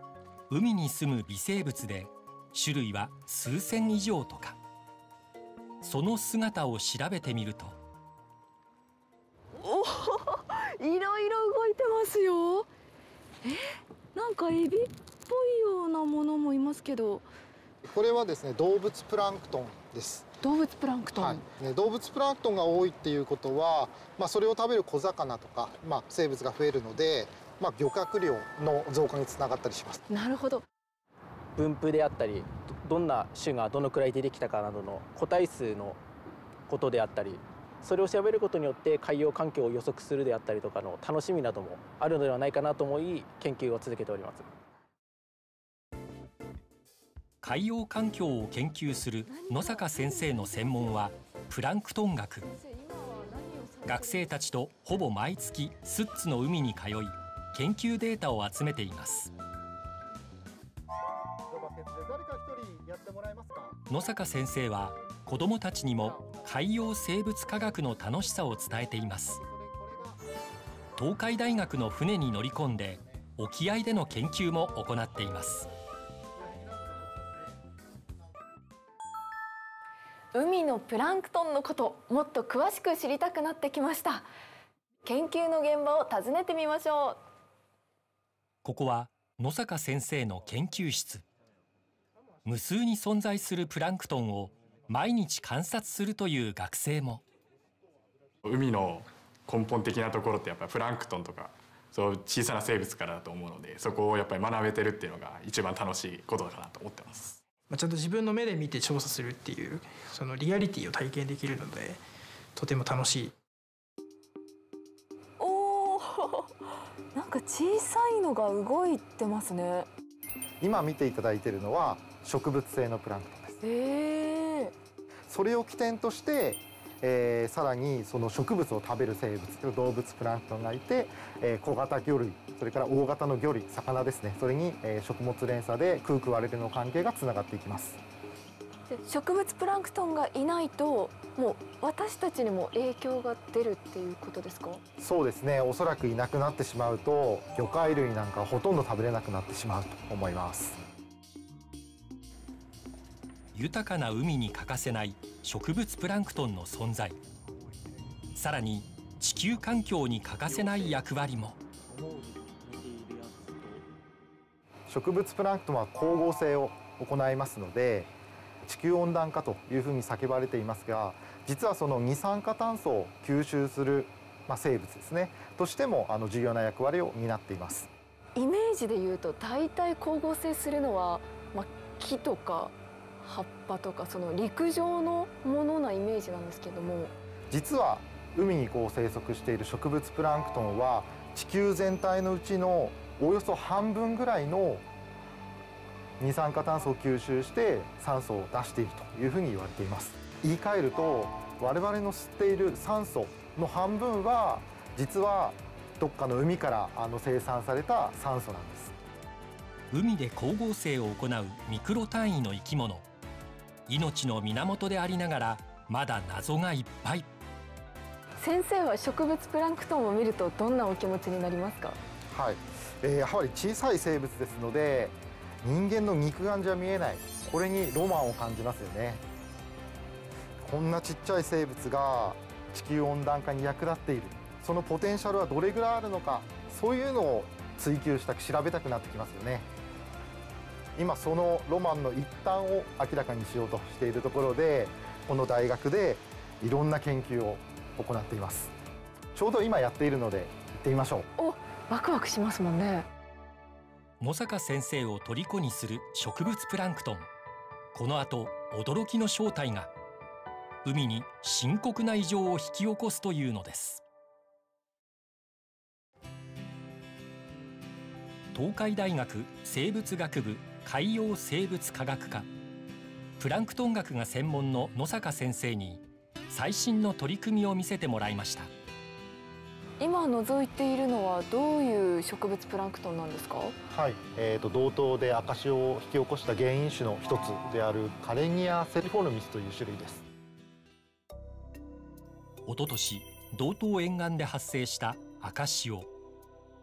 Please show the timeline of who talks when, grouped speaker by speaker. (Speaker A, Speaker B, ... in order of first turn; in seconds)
Speaker A: 0.5-4.6, 5.8-7.8, 47.4-52.5, 53.9-59.3, 63.9-69.4, 71.0-75.7, 88.6-91.2, 92.5-97.2, 153.5-157.2, 158.3-161.6, 209.9-213.1, 213.9-217.3, 254.2-257.3, 257.9-259.9, 260.8-264.0, 268.5-272.5, 273.4-278.7, 292.7-296.1
Speaker B: 9.6-12.7, 13.4-17.3, 20.4-21.4, 30.1-30.6, 49.3-51.0, 52.5-54.5, 80.3-84.3, 85.0-87.2, 115.4-116.5, 117.1-119.9, 123.6-124.7, 138.9-144.8, 178.4-187.1, 218.4-222.0, 251.4-253.1, 280.0-283.8
Speaker C: 17.8-20.3, 21.1-30.0, 61.5-63.8, 66.0-66.8, 67.5-70.2, 76.4-77.3, 120.6-123.6, 125.3-138.0, 145.0-150.8, 164.9-168.1, 168.7-177.9, 187.5-194.9, 196.2-209.0, 222.3-229.2, 230.6-239.7, 241.0-248.7, 249.3-251.3, 283.9-290.2
Speaker D: 31.6-36.0, 36.7-44.5
Speaker E: 98.4-107.4
Speaker F: 107.7-112.0, 112.5-113.3